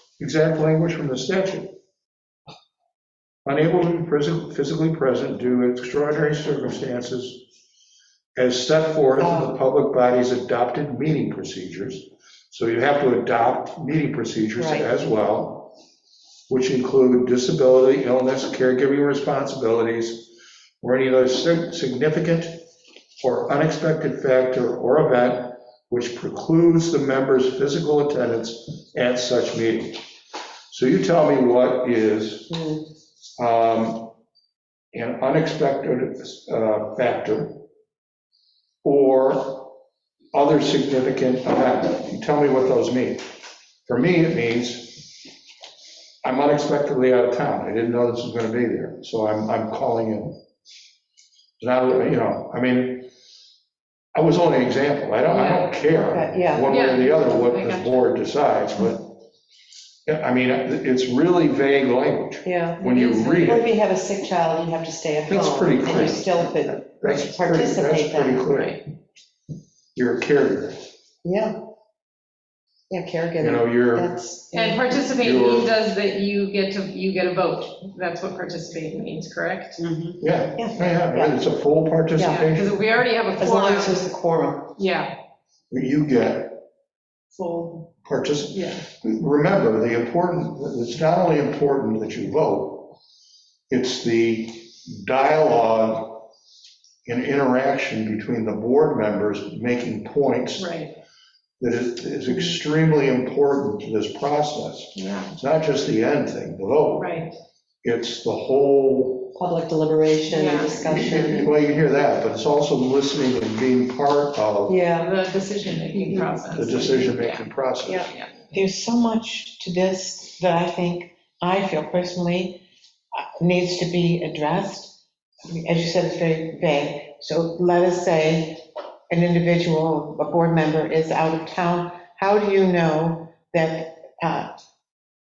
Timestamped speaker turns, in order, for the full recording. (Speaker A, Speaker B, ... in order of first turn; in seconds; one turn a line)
Speaker A: 0.2-1.7
Speaker A: 3.5-7.5
Speaker A: 8.3-15.8
Speaker B: 9.2-9.6
Speaker B: 14.6-14.9
Speaker A: 16.5-22.6
Speaker A: 23.2-30.1
Speaker A: 30.7-32.6
Speaker B: 32.5-32.8
Speaker A: 33.4-34.1
Speaker A: 34.9-37.6
Speaker A: 38.8-39.8
Speaker A: 40.3-43.3
Speaker A: 43.9-45.2
Speaker A: 46.2-50.4
Speaker A: 51.6-53.1
Speaker A: 54.1-59.1
Speaker C: 55.3-55.8
Speaker B: 55.9-56.7
Speaker C: 56.7-58.1
Speaker A: 60.1-63.7
Speaker B: 62.5-62.8
Speaker C: 62.8-63.6
Speaker B: 63.4-68.5
Speaker A: 65.3-68.9
Speaker C: 68.5-68.8
Speaker A: 70.0-70.8
Speaker B: 71.2-71.6
Speaker B: 72.9-74.8
Speaker A: 73.4-74.1
Speaker C: 74.5-79.8
Speaker A: 75.2-75.7
Speaker B: 79.8-81.4
Speaker A: 80.2-82.8
Speaker B: 82.2-82.4
Speaker C: 82.2-84.0
Speaker B: 83.4-84.7
Speaker C: 84.8-85.2
Speaker A: 85.7-86.6
Speaker B: 87.3-87.8
Speaker A: 88.0-93.0
Speaker C: 88.5-88.8
Speaker A: 93.7-96.2
Speaker A: 97.0-100.8
Speaker C: 100.6-100.9
Speaker A: 101.6-107.2
Speaker C: 105.0-105.3
Speaker C: 107.0-107.3
Speaker A: 107.8-109.3
Speaker B: 109.3-111.5
Speaker C: 110.3-110.8
Speaker A: 110.8-114.8
Speaker B: 114.7-115.1
Speaker C: 114.9-117.5
Speaker B: 115.9-116.5
Speaker A: 116.5-118.1
Speaker B: 117.8-118.1
Speaker D: 118.5-122.6
Speaker D: 123.2-134.6